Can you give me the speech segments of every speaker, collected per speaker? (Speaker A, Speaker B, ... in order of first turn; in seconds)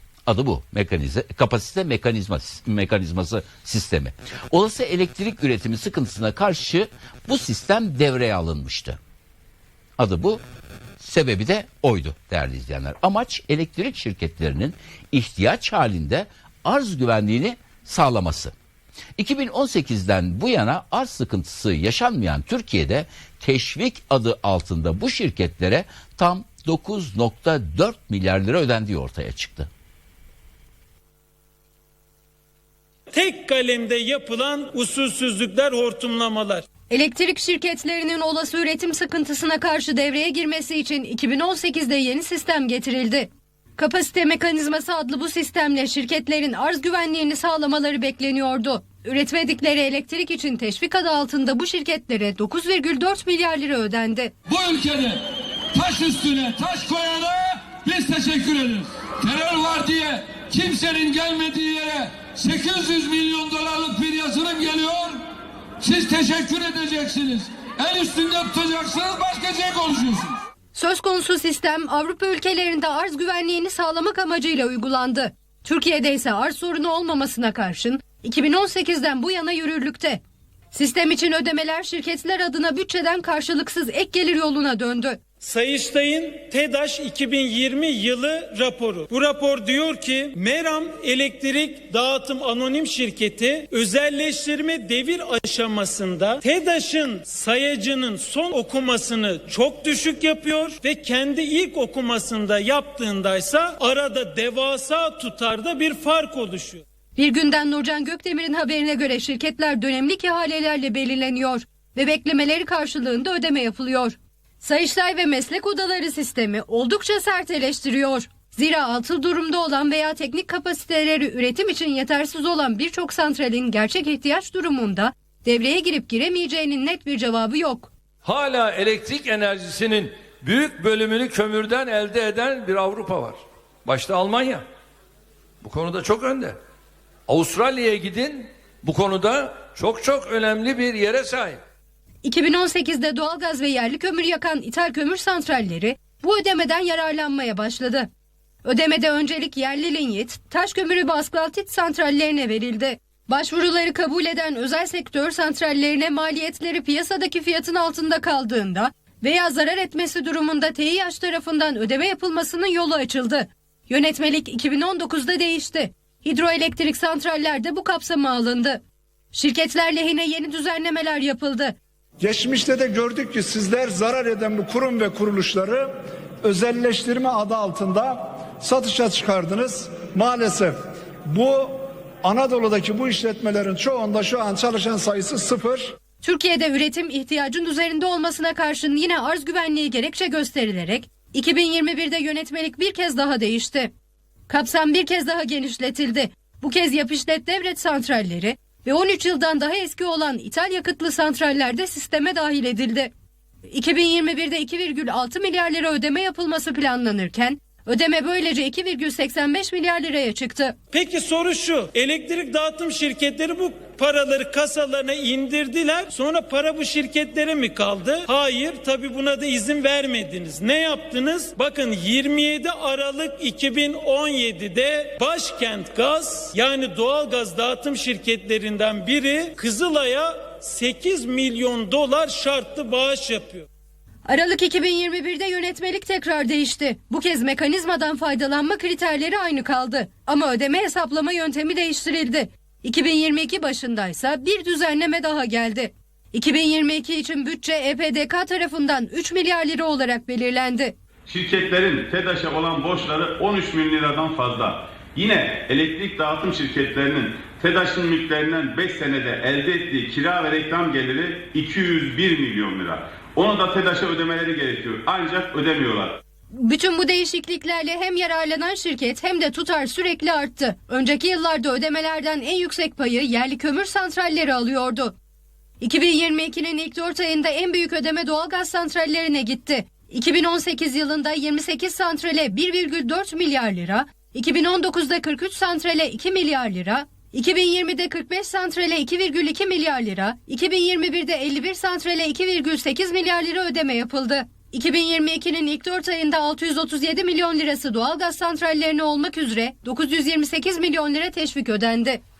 Speaker A: 0.3-9.0, 10.0-10.4, 11.0-18.5, 19.2-29.7
Speaker B: 33.1-36.6, 85.4-106.8, 210.9-233.7
Speaker C: 36.9-54.3, 70.7-80.2, 80.7-85.2, 107.2-127.9, 142.2-148.1, 148.6-168.8, 169.3-171.7, 186.2-193.9, 194.5-203.1, 203.7-210.8, 234.2-250.9, 266.5-275.1, 275.8-302.2
Speaker D: 54.5-65.2, 65.8-70.4
Speaker E: 128.2-134.6, 135.6-136.6, 137.3-141.6
Speaker F: 172.2-175.9, 176.4-180.7, 181.3-185.9
Speaker G: 251.3-266.2